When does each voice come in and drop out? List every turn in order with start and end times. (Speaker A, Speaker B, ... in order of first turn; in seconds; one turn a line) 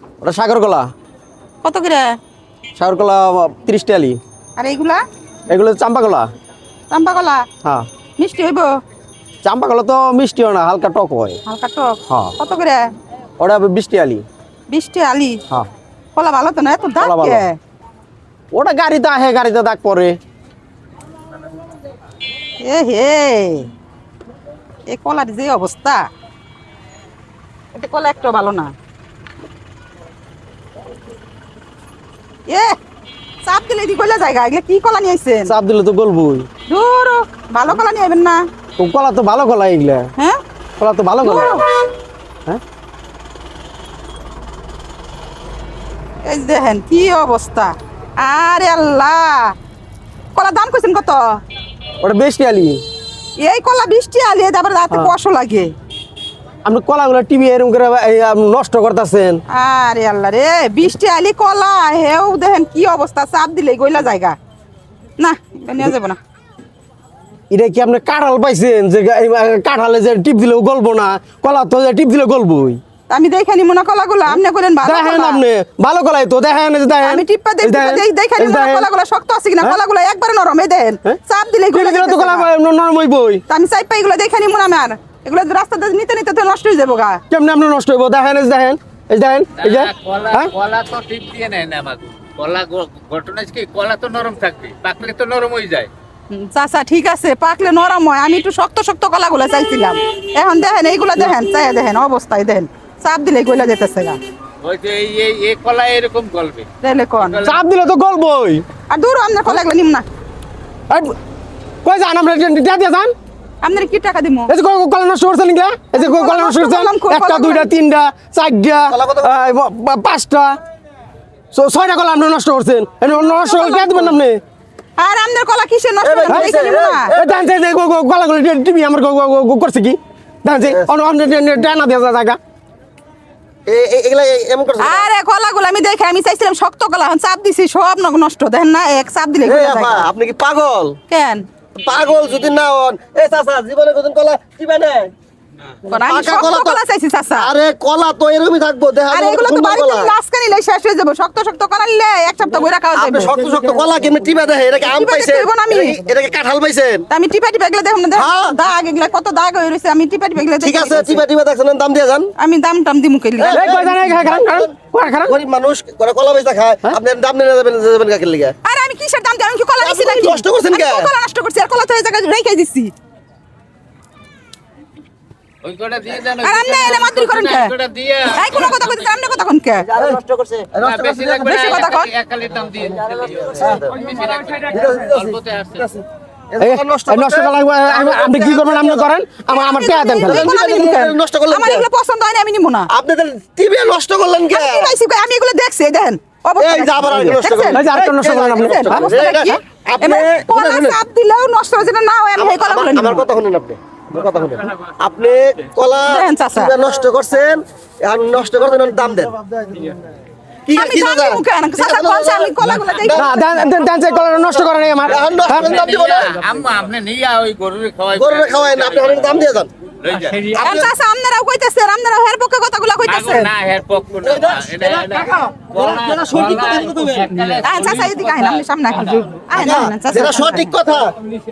Speaker A: 0.2-0.9
Speaker B: 1.6-2.1
Speaker A: 2.8-4.2
Speaker B: 4.6-5.0
Speaker A: 5.5-6.3
Speaker B: 6.9-7.5
Speaker B: 8.2-8.7
Speaker A: 9.4-11.4
Speaker B: 11.5-12.9
Speaker A: 12.1-12.3
Speaker A: 13.4-14.2
Speaker B: 14.7-15.4
Speaker B: 16.1-17.6
Speaker A: 17.0-17.5
Speaker A: 18.5-20.1
Speaker B: 22.6-23.7
Speaker B: 24.9-26.1
Speaker B: 27.7-28.7
Speaker B: 32.5-32.8
Speaker B: 33.4-35.5
Speaker A: 35.5-36.5
Speaker B: 36.7-38.4
Speaker A: 38.8-40.1
Speaker A: 40.8-41.6
Speaker B: 41.2-41.6
Speaker B: 46.2-49.5
Speaker B: 50.4-51.2
Speaker A: 52.0-52.8
Speaker B: 53.4-55.7
Speaker A: 56.6-59.4
Speaker B: 59.5-64.4
Speaker B: 65.2-66.2
Speaker A: 67.5-72.8
Speaker B: 73.1-75.4
Speaker A: 74.3-78.9
Speaker B: 77.0-82.5
Speaker A: 81.7-83.4
Speaker B: 83.5-87.2
Speaker A: 87.3-90.5
Speaker C: 89.6-95.9
Speaker B: 96.3-104.2
Speaker C: 104.6-107.6
Speaker B: 106.8-107.4
Speaker A: 107.5-108.6
Speaker B: 108.9-110.0
Speaker A: 110.9-111.2
Speaker A: 111.8-113.1
Speaker B: 113.6-114.5
Speaker A: 114.5-120.6
Speaker B: 115.9-117.7
Speaker D: 118.9-119.3
Speaker A: 121.5-124.4
Speaker B: 123.0-124.2
Speaker B: 125.0-127.1
Speaker D: 126.0-127.5
Speaker A: 127.1-132.4
Speaker D: 133.7-135.1
Speaker B: 134.8-140.1
Speaker D: 139.4-141.0
Speaker B: 141.1-141.4
Speaker D: 141.8-145.1
Speaker B: 145.9-147.5
Speaker D: 146.1-146.8
Speaker D: 147.3-150.1
Speaker B: 149.1-153.3
Speaker D: 152.9-157.1
Speaker B: 154.8-156.0
Speaker B: 157.1-161.2
Speaker D: 158.2-158.6
Speaker D: 160.6-162.3
Speaker B: 162.4-163.9
Speaker D: 163.4-164.7
Speaker A: 163.5-165.3
Speaker D: 165.3-168.6
Speaker B: 168.7-172.9
Speaker D: 169.8-171.1
Speaker C: 175.6-179.1
Speaker B: 176.4-177.7
Speaker B: 178.3-179.9
Speaker D: 179.9-181.8
Speaker C: 180.8-185.9
Speaker B: 181.4-182.1
Speaker D: 183.6-183.9
Speaker D: 184.7-189.1
Speaker A: 186.6-191.2
Speaker B: 189.5-190.9
Speaker D: 190.2-191.8
Speaker B: 191.5-192.9
Speaker D: 192.9-194.9
Speaker B: 194.5-197.9
Speaker D: 196.6-201.0
Speaker A: 197.7-199.1
Speaker B: 198.6-203.2
Speaker D: 202.4-209.8
Speaker B: 206.1-206.7
Speaker D: 210.7-213.4
Speaker B: 210.7-213.7
Speaker A: 213.1-215.8
Speaker C: 215.1-219.4
Speaker D: 215.1-216.4
Speaker D: 218.1-219.7
Speaker C: 220.0-220.6
Speaker B: 220.5-223.5
Speaker D: 220.6-220.9
Speaker C: 223.1-229.5
Speaker D: 224.2-227.6
Speaker B: 227.6-230.7
Speaker D: 229.5-231.1